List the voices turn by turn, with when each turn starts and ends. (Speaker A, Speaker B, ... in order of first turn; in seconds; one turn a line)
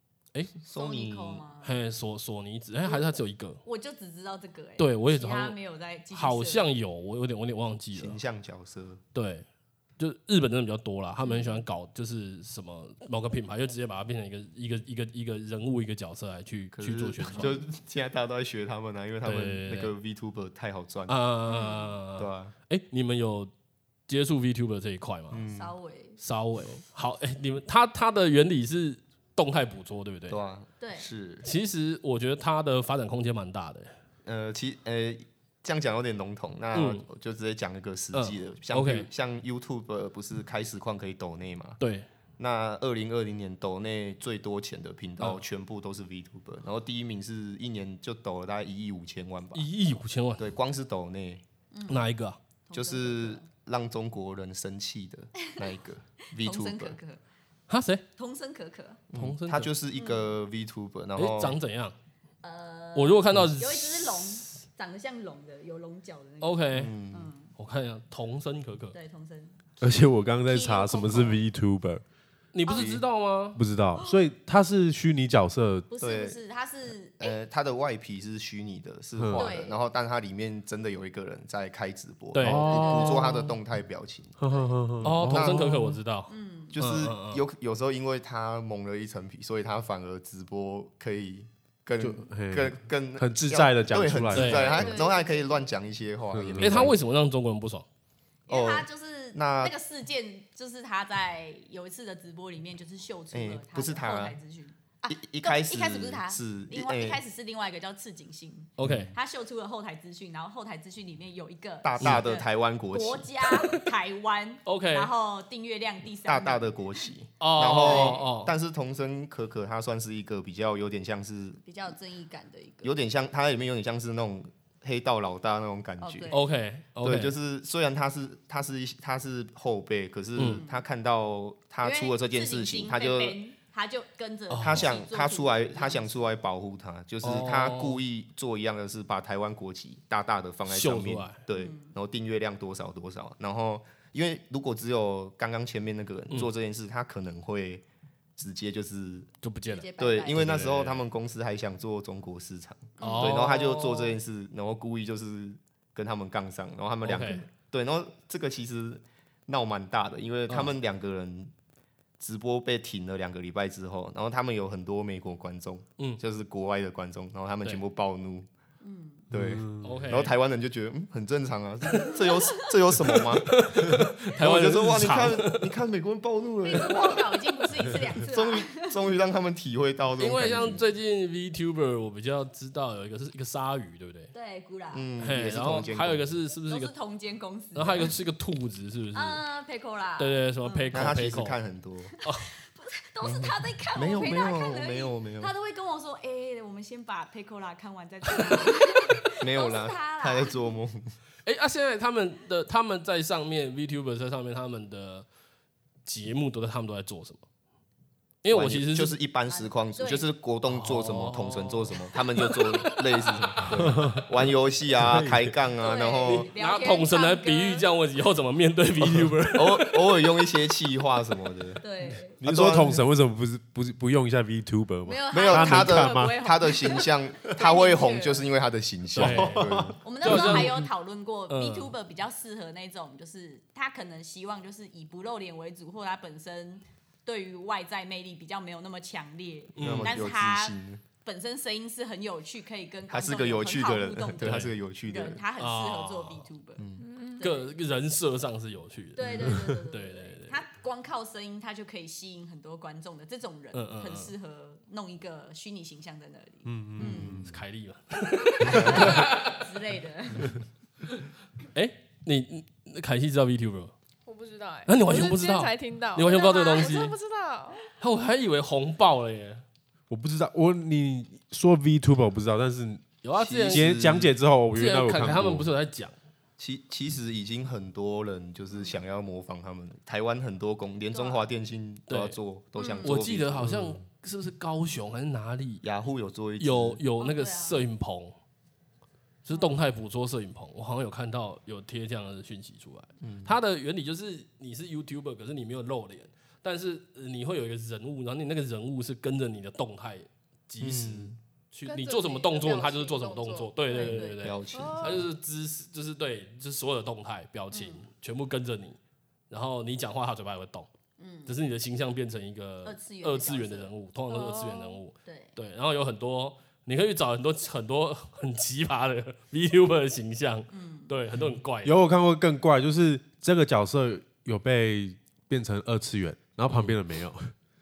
Speaker A: 0.7-1.4
Speaker B: 0.8-1.8
Speaker C: 1.6-3.6
Speaker B: 2.9-6.7
Speaker C: 4.8-5.6
Speaker C: 6.1-8.2
Speaker A: 7.9-9.0
Speaker C: 9.1-9.5
Speaker C: 10.0-17.6
Speaker B: 11.2-11.7
Speaker A: 16.7-21.2
Speaker B: 17.3-17.6
Speaker C: 19.2-19.9
Speaker C: 21.1-23.5
Speaker B: 21.5-21.9
Speaker A: 22.2-22.5
Speaker C: 24.1-25.4
Speaker A: 25.3-25.7
Speaker B: 25.5-26.2
Speaker C: 26.2-30.4
Speaker A: 30.3-31.5
Speaker B: 30.8-31.1
Speaker C: 31.4-33.9
Speaker A: 34.2-41.8
Speaker C: 36.7-37.0
Speaker C: 38.1-39.1
Speaker C: 41.8-42.1
Speaker A: 42.4-49.7
Speaker C: 49.5-50.5
Speaker A: 50.4-51.4
Speaker B: 51.7-52.1
Speaker C: 51.9-52.4
Speaker B: 52.7-53.5
Speaker A: 52.7-57.0
Speaker B: 56.3-57.2
Speaker C: 57.7-58.0
Speaker B: 58.2-59.0
Speaker A: 59.1-61.6
Speaker C: 59.1-59.7
Speaker B: 60.0-60.3
Speaker C: 61.2-62.0
Speaker B: 62.4-67.5
Speaker C: 63.0-64.5
Speaker C: 66.4-66.9
Speaker A: 66.7-67.3
Speaker C: 67.6-69.0
Speaker B: 68.9-69.6
Speaker D: 69.8-72.0
Speaker B: 70.5-71.4
Speaker C: 72.5-73.6
Speaker B: 72.7-73.0
Speaker A: 72.7-73.0
Speaker D: 73.6-75.9
Speaker B: 74.0-74.2
Speaker B: 75.9-77.4
Speaker A: 76.0-76.4
Speaker A: 77.2-84.4
Speaker D: 79.2-79.5
Speaker B: 79.3-79.8
Speaker C: 82.3-82.7
Speaker D: 82.4-83.3
Speaker B: 82.5-83.6
Speaker D: 84.4-85.9
Speaker C: 85.0-87.4
Speaker A: 85.0-85.7
Speaker B: 86.3-86.8
Speaker A: 86.7-97.0
Speaker D: 92.0-95.0
Speaker C: 94.3-94.7
Speaker B: 94.4-95.7
Speaker D: 96.3-96.9
Speaker C: 96.6-97.9
Speaker B: 98.5-116.8
Speaker A: 98.5-99.8
Speaker A: 103.3-104.4
Speaker A: 105.1-107.2
Speaker C: 108.8-109.1
Speaker A: 108.8-109.1
Speaker A: 111.8-113.5
Speaker C: 114.7-115.1
Speaker A: 116.2-121.6
Speaker C: 117.4-118.5
Speaker B: 117.8-118.3
Speaker B: 121.6-122.9
Speaker A: 122.8-126.3
Speaker B: 126.0-126.5
Speaker C: 126.3-127.3
Speaker A: 127.0-133.4
Speaker C: 130.4-130.6
Speaker B: 130.4-130.8
Speaker B: 131.8-136.2
Speaker C: 134.5-134.9
Speaker A: 134.6-147.8
Speaker C: 137.2-138.0
Speaker C: 140.7-141.4
Speaker B: 141.5-141.9
Speaker A: 148.4-149.3
Speaker C: 149.4-151.0
Speaker B: 149.7-150.7
Speaker A: 150.0-161.5
Speaker B: 153.0-153.5
Speaker C: 153.0-154.2
Speaker C: 157.0-157.5
Speaker C: 160.5-160.7
Speaker A: 162.2-168.5
Speaker B: 168.8-169.3
Speaker A: 169.3-177.4
Speaker D: 169.3-170.1
Speaker C: 169.8-170.3
Speaker B: 172.0-172.7
Speaker C: 173.4-175.7
Speaker B: 176.6-179.0
Speaker A: 178.2-180.8
Speaker C: 180.2-184.3
Speaker B: 184.3-185.2
Speaker A: 184.9-186.3
Speaker C: 185.2-186.9
Speaker B: 186.7-188.2
Speaker C: 187.7-189.4
Speaker B: 189.1-191.2
Speaker C: 190.2-191.6
Speaker A: 190.9-192.1
Speaker B: 192.1-200.7
Speaker C: 192.2-192.5
Speaker A: 193.2-195.5
Speaker A: 199.4-201.1
Speaker C: 201.4-205.3
Speaker C: 206.1-207.4
Speaker C: 208.4-209.2
Speaker A: 208.5-216.5
Speaker B: 209.5-210.3
Speaker C: 210.7-212.6
Speaker B: 212.4-213.6
Speaker D: 213.8-215.6
Speaker B: 215.8-217.9
Speaker C: 216.3-220.2
Speaker A: 219.5-221.8
Speaker B: 221.8-222.4
Speaker D: 222.4-226.4
Speaker A: 222.4-223.0
Speaker B: 225.1-228.5
Speaker A: 225.3-230.6
Speaker D: 229.2-230.5
Speaker C: 229.2-230.8
Speaker B: 230.0-247.8
Speaker C: 231.5-231.9
Speaker C: 239.8-240.2
Speaker A: 239.8-241.0
Speaker A: 243.1-245.4
Speaker C: 244.4-244.7
Speaker C: 245.6-246.5
Speaker A: 246.8-247.1
Speaker E: 247.0-247.4
Speaker C: 247.4-250.6
Speaker B: 249.2-257.5
Speaker A: 249.2-249.6
Speaker D: 249.3-249.8
Speaker C: 253.7-254.3
Speaker D: 256.6-257.5
Speaker A: 257.0-257.6
Speaker C: 257.4-259.7
Speaker B: 258.5-260.6
Speaker C: 261.7-263.9
Speaker E: 264.3-267.9
Speaker C: 264.9-267.1
Speaker C: 268.0-269.6
Speaker D: 270.1-273.1
Speaker C: 273.2-274.0
Speaker A: 273.4-274.3
Speaker D: 273.7-275.7
Speaker C: 274.7-276.1
Speaker A: 276.6-283.9
Speaker B: 281.1-281.5
Speaker C: 282.1-282.4
Speaker B: 282.8-283.2
Speaker C: 283.0-285.8
Speaker A: 285.8-287.0
Speaker C: 286.6-288.4
Speaker B: 287.2-287.8
Speaker C: 289.4-309.0
Speaker B: 289.5-289.8
Speaker A: 293.2-293.6
Speaker A: 300.8-301.4
Speaker E: 301.9-304.0
Speaker B: 303.9-304.9
Speaker A: 304.4-305.3
Speaker E: 304.7-305.3
Speaker B: 307.7-308.1
Speaker C: 309.5-310.9
Speaker B: 311.2-311.6
Speaker C: 311.5-322.0
Speaker B: 312.8-313.9
Speaker E: 314.3-315.0
Speaker B: 315.2-315.6
Speaker B: 320.7-321.2
Speaker D: 321.8-327.5
Speaker C: 326.7-326.9